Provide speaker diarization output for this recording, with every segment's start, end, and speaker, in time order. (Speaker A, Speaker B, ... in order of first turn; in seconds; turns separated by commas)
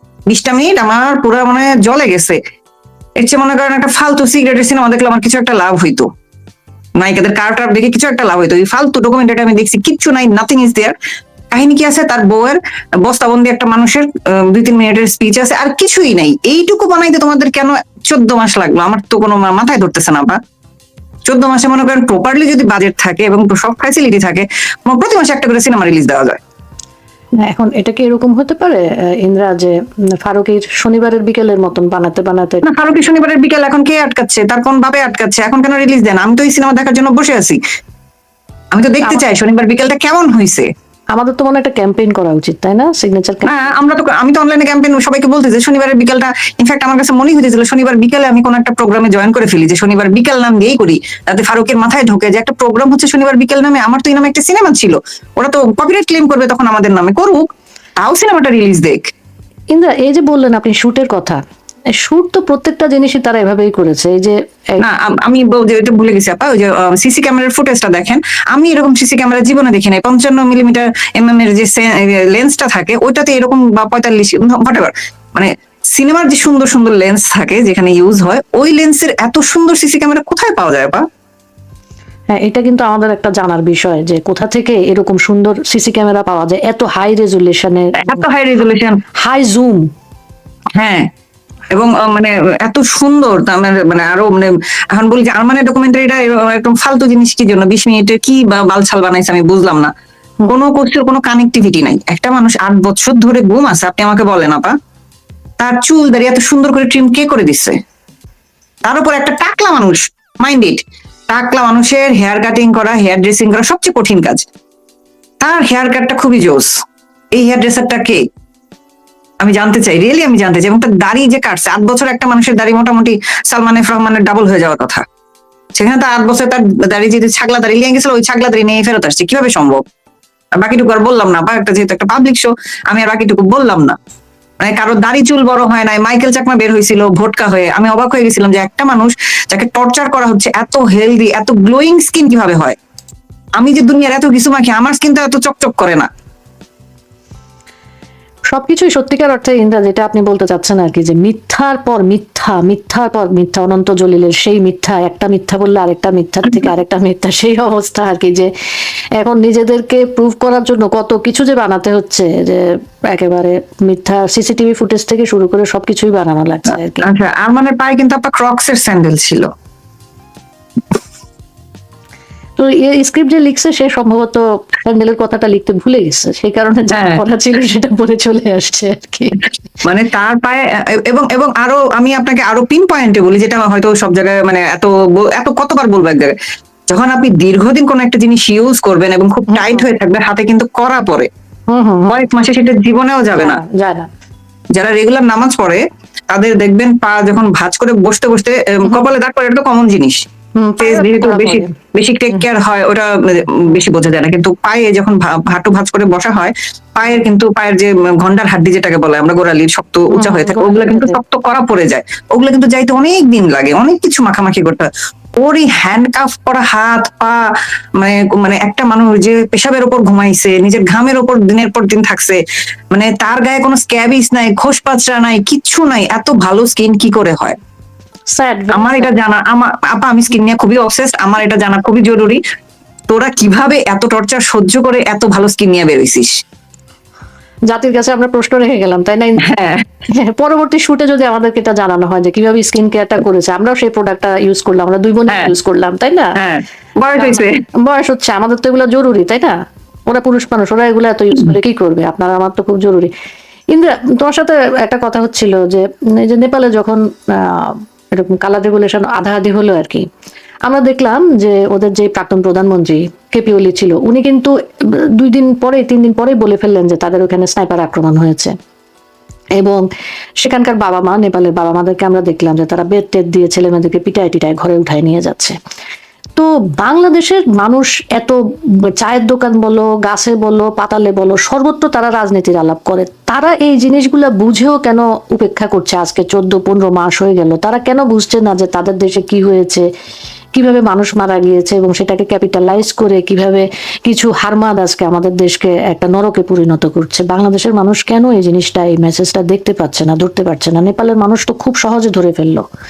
Speaker A: 0.3-2.4, Speaker A: 3.2-6.1, Speaker A: 7.0-11.0, Speaker A: 11.5-20.4, Speaker A: 21.3-26.4, Speaker B: 27.4-32.6, Speaker A: 32.6-37.6, Speaker A: 38.7-40.7, Speaker B: 41.1-43.6, Speaker A: 43.5-57.5, Speaker A: 58.0-59.1, Speaker B: 59.7-61.4, Speaker B: 61.9-64.8, Speaker A: 64.8-81.0, Speaker B: 82.3-88.2, Speaker A: 88.0-89.0, Speaker B: 89.2-89.9, Speaker A: 90.8-91.1, Speaker A: 91.7-99.9, Speaker A: 100.5-104.8, Speaker A: 105.6-107.8, Speaker A: 108.8-114.5, Speaker A: 115.4-116.8, Speaker A: 117.3-118.2, Speaker A: 119.4-125.0, Speaker A: 125.8-129.8, Speaker A: 130.6-134.0, Speaker A: 134.6-142.8, Speaker A: 143.6-146.1, Speaker B: 148.5-158.5, Speaker B: 159.2-167.1, Speaker A: 167.0-169.5, Speaker B: 172.6-179.5, Speaker A: 176.9-177.2, Speaker A: 179.8-186.4, Speaker A: 186.9-191.3, Speaker B: 189.5-189.8, Speaker B: 191.7-192.2, Speaker A: 192.1-193.6, Speaker B: 193.4-194.1, Speaker A: 194.7-200.2, Speaker B: 200.6-201.8, Speaker A: 200.8-214.9, Speaker B: 210.1-211.2, Speaker A: 215.4-217.5, Speaker A: 218.0-227.6, Speaker B: 228.3-229.1, Speaker A: 228.7-232.4, Speaker A: 233.1-236.3, Speaker B: 237.7-239.5, Speaker A: 239.4-239.9, Speaker B: 240.1-246.4, Speaker A: 246.4-247.6, Speaker B: 247.2-253.1, Speaker B: 253.7-260.1, Speaker B: 260.7-268.5, Speaker B: 269.6-269.9, Speaker B: 270.4-275.6, Speaker B: 276.4-289.9, Speaker B: 290.5-302.7